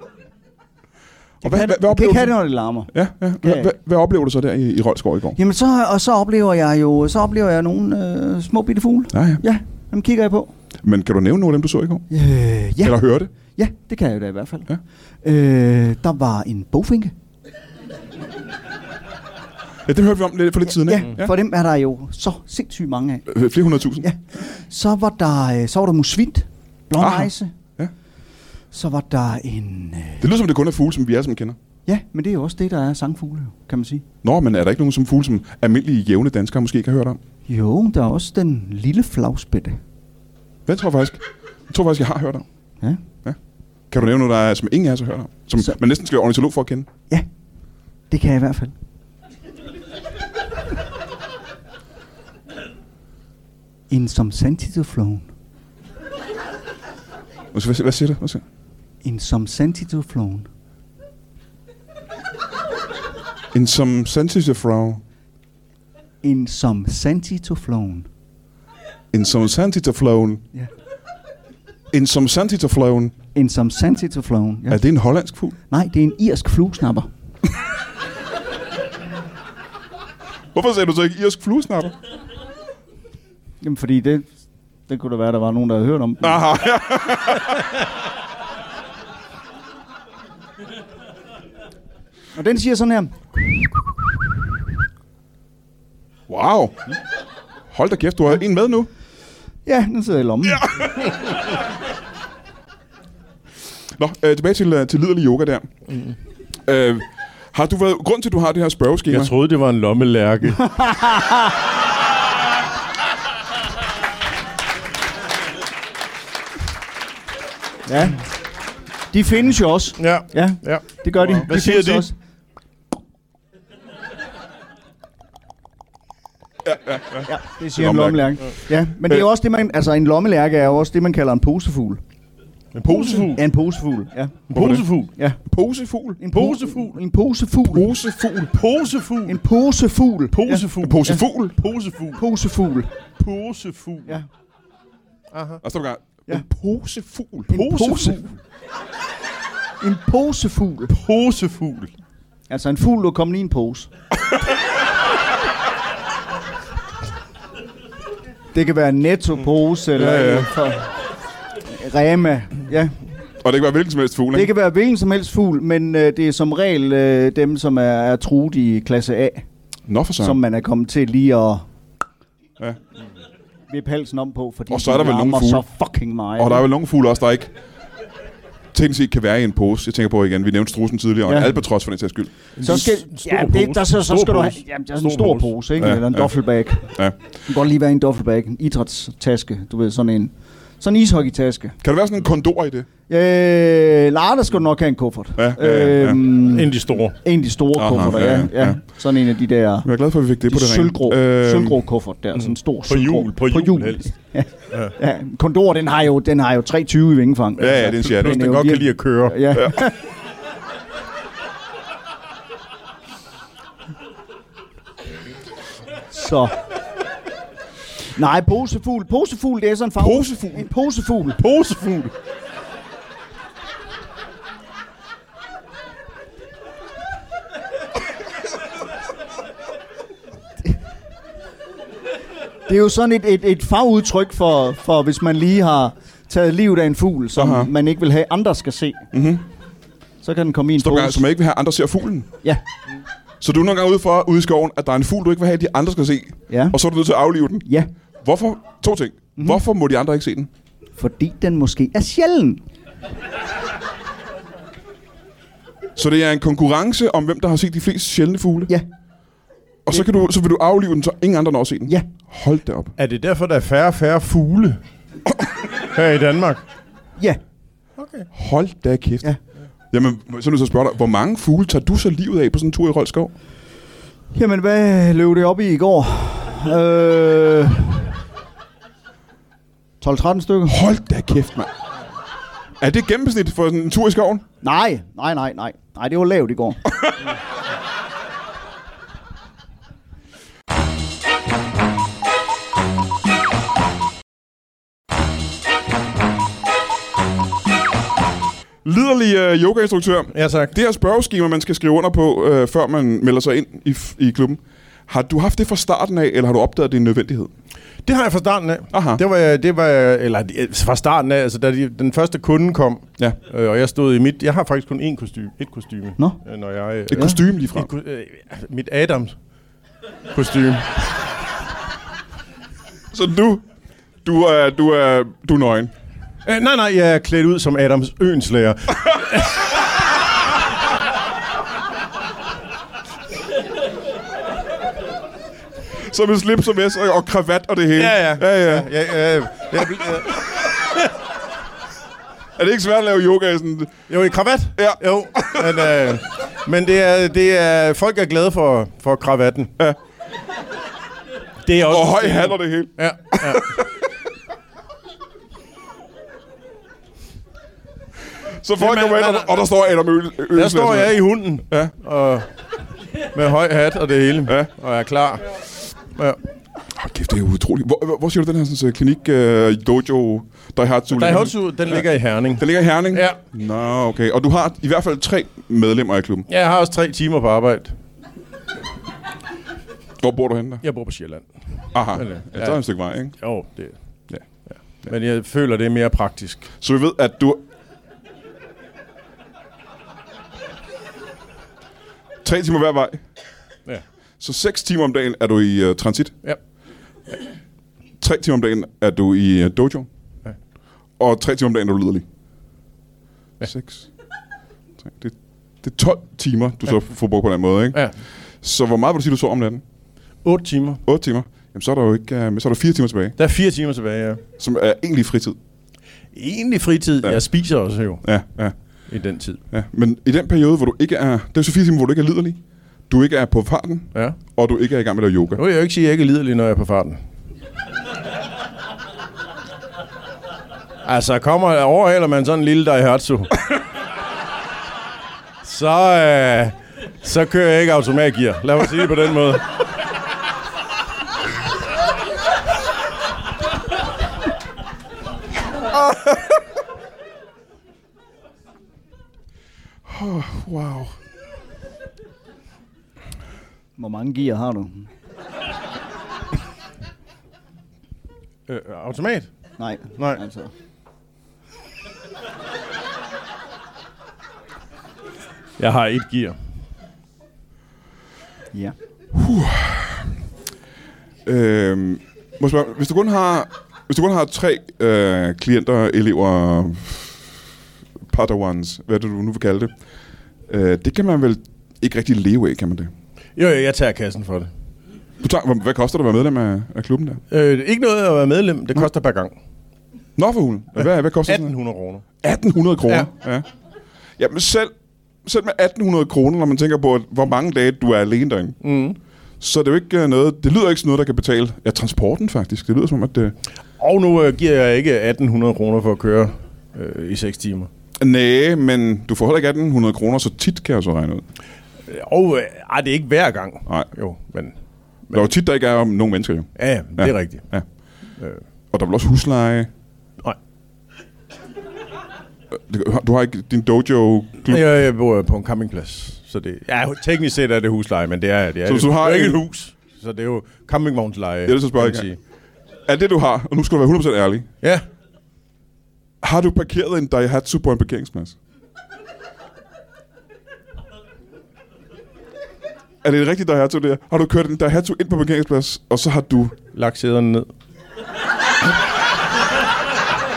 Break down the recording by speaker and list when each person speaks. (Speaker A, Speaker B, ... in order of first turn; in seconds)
Speaker A: 1.4-2.4, 2.9-5.4, 9.1-9.4, 10.8-12.1, 12.8-13.3, 19.9-21.3, 23.3-24.1, 27.0-27.9, 30.2-31.6, 34.2-37.2, 40.6-42.5, 43.9-46.9, 57.5-58.4, 63.5-65.0, 69.1-70.4, 71.9-73.1, 74.7-75.6, 80.5-82.0, 86.2-87.7, 96.3-96.8, 97.7-98.9, 100.5-101.4, 104.0-105.7, 106.7-109.3, 126.6-128.4, 132.9-133.3, 134.5-134.9, 135.4-136.2, 137.7-138.6, 140.8-141.6, 145.6-147.6, 163.4-164.5, 169.9-170.4, 174.7-175.6, 176.4-177.5, 178.7-182.3, 185.8-186.3, 191.8-192.9, 195.4-196.2, 197.8-198.8, 199.8-201.8, 207.6-208.4, 220.0-220.6, 237.4-237.7, 239.1-239.4, 240.8-242.3, 243.4-247.7, 248.2-250.5, 255.9-258.7, 259.9-262.9, 268.3-269.3, 269.9-273.3, 280.7-281.7, 282.8-284.4, 298.8-307.5, 308.9-309.2, 317.1-317.9, 323.1-323.6, 324.2-325.9, 335.9-338.9, 342.6-344.0, 344.8-346.1, 351.9-354.1, 358.6-361.9, 366.9-376.4, 380.2-380.8, 381.9-383.3, 386.8-387.6, 392.4-393.2, 394.4-396.4, 398.2-400.1, 401.2-402.2, 403.6-404.1, 405.0-409.8, 411.1-413.3, 414.6-415.6, 418.2-418.7, 419.7-425.6, 450.1-451.2, 469.3-470.3, 471.4-477.5, 478.3-479.9, 480.7-483.1, 485.4-487.4, 490.4-491.7, 492.4-493.6, 494.4-494.9, 495.4-498.8, 499.6-503.6, 508.2-511.4, 515.3-517.9, 518.9-519.9, 522.7-524.8, 528.9-529.6, 531.7-532.3, 533.0-534.7, 536.4-538.5, 543.2-546.8
Speaker B: 1.4-3.7, 5.4-10.5, 12.1-14.7, 15.2-17.1, 20.7-23.3, 24.0-27.5, 28.7-30.3, 31.9-34.0, 37.5-39.8, 48.1-48.8, 53.9-55.3, 59.0-60.5, 66.2-68.1, 73.3-74.8, 75.7-77.1, 83.6-84.3, 84.9-86.4, 92.3-93.8, 99.7-100.7, 110.6-111.6, 117.9-118.2, 119.1-122.1, 127.3-132.0, 132.9-134.4, 136.2-137.9, 139.3-141.2, 142.2-142.9, 147.5-148.3, 149.8-150.9, 152.5-153.9, 158.5-160.9, 161.7-163.0, 164.3-169.4, 170.2-171.6, 173.7-176.6, 181.3-181.6, 182.6-191.8, 193.1-199.9, 200.5-210.0, 216.1-216.6, 218.1-221.4, 232.7-239.1, 240.2-241.2, 246.5-246.8, 251.0-252.6, 274.3-278.1, 280.0-280.8, 284.6-286.8, 454.0-455.1, 459.8-460.7
Speaker C: 109.1-110.6, 120.0-122.1, 132.7-133.4, 134.5-135.1, 136.3-137.0, 138.5-139.4, 140.3-142.2, 143.2-144.2, 145.3-145.6, 147.5-148.2, 150.9-151.9, 160.0-160.5, 182.6-185.5, 196.4-197.2, 202.4-204.1, 207.8-209.5, 221.4-222.1, 263.0-264.8, 265.8-266.6, 268.0-268.3, 300.3-300.7, 308.1-319.3, 320.3-321.1, 326.4-329.7, 337.9-341.1, 344.1-349.7, 351.6-353.8, 358.8-359.6, 360.5-362.5, 363.2-365.6, 366.1-366.4, 371.1-373.4, 376.5-377.9, 380.8-382.8, 383.3-383.9, 385.0-386.7, 410.4-411.0, 413.4-414.4, 416.3-418.3, 419.1-419.6, 425.6-427.2, 431.0-433.6, 435.6-439.6, 458.7-459.5, 465.8-466.6, 483.6-484.7, 487.5-489.6, 491.4-492.2, 498.8-499.2, 504.0-507.9, 512.1-514.7, 516.8-517.7, 524.7-532.4, 546.9-547.7